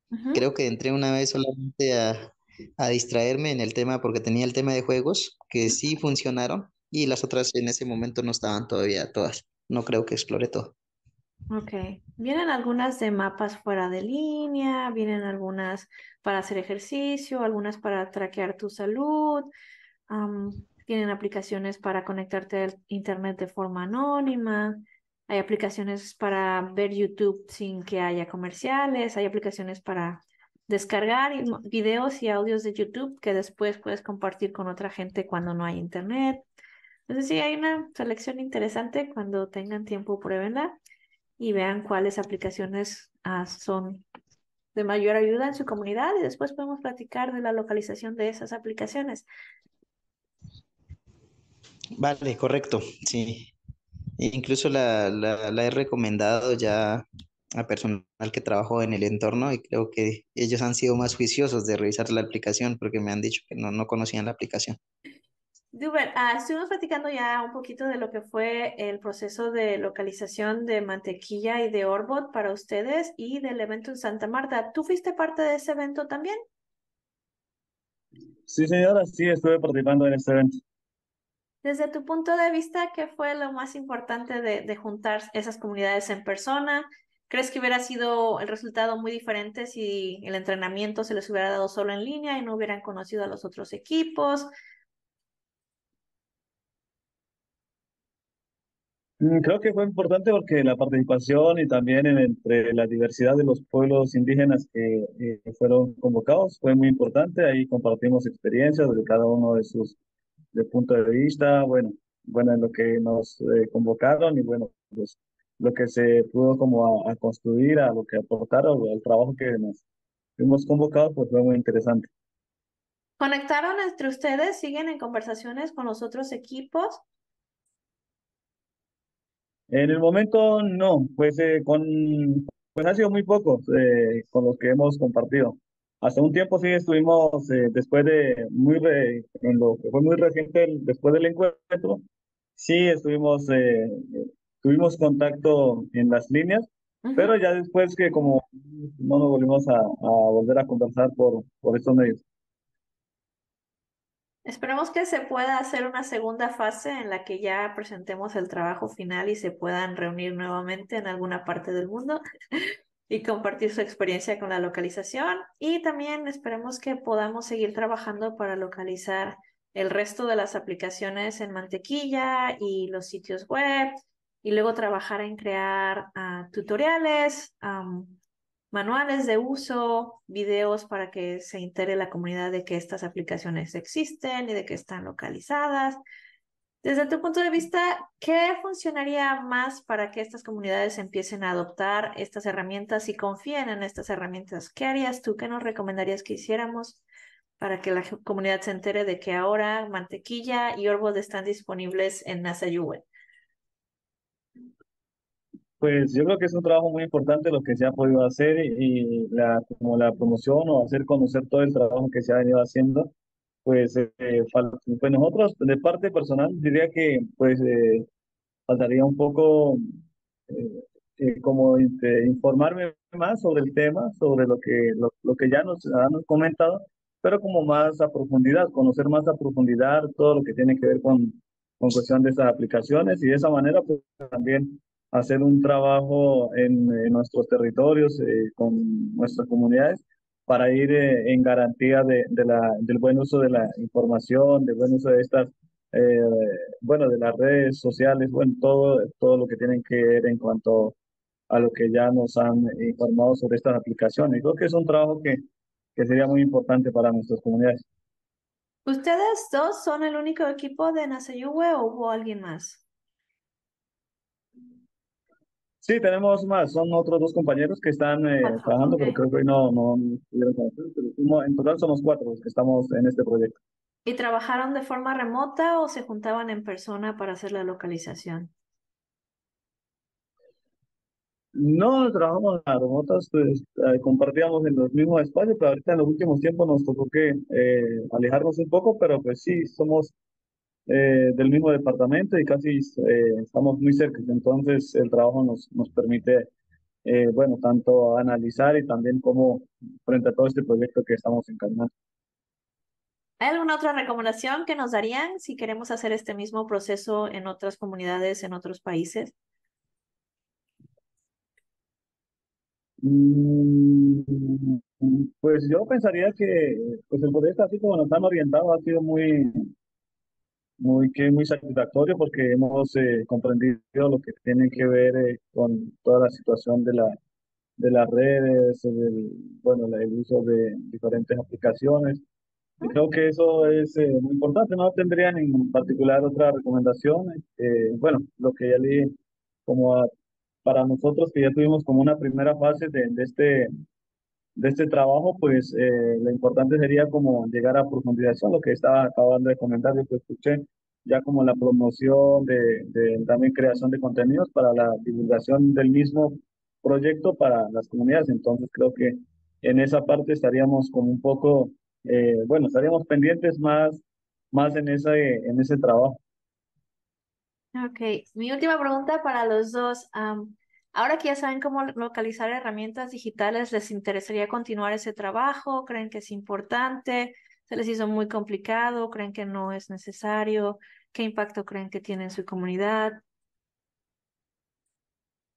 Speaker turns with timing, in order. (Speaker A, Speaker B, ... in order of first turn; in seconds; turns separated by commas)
Speaker A: 0.1-0.4, Speaker B: 0.3-10.8, Speaker A: 11.5-19.5, Speaker A: 20.1-36.4, Speaker A: 37.1-40.8, Speaker A: 41.4-44.0, Speaker A: 44.7-49.3, Speaker B: 52.0-53.5, Speaker B: 54.2-64.8, Speaker A: 65.7-76.4, Speaker C: 78.5-80.5, Speaker A: 81.6-94.5, Speaker C: 99.2-110.0, Speaker C: 110.5-119.8, Speaker C: 120.4-122.1, Speaker A: 123.2-127.0, Speaker C: 129.7-142.0, Speaker C: 142.6-152.2, Speaker A: 147.1-147.3, Speaker A: 154.5-162.2, Speaker A: 163.1-178.2, Speaker A: 178.7-186.0, Speaker A: 186.8-197.0, Speaker A: 197.6-203.1, Speaker C: 205.8-213.1, Speaker C: 213.7-218.1, Speaker C: 218.7-219.8, Speaker C: 220.5-250.9, Speaker C: 251.5-255.4, Speaker C: 256.0-257.8, Speaker A: 258.9-262.8, Speaker C: 265.8-273.6, Speaker A: 268.4-269.2, Speaker A: 274.1-278.5, Speaker C: 281.6-290.1, Speaker C: 290.9-296.5, Speaker C: 297.1-301.9, Speaker A: 303.4-309.3, Speaker C: 313.0-319.7, Speaker C: 320.8-327.2, Speaker C: 327.8-332.2, Speaker C: 332.8-339.1, Speaker C: 339.7-340.1, Speaker C: 340.6-343.7, Speaker C: 344.6-366.2, Speaker A: 367.8-383.2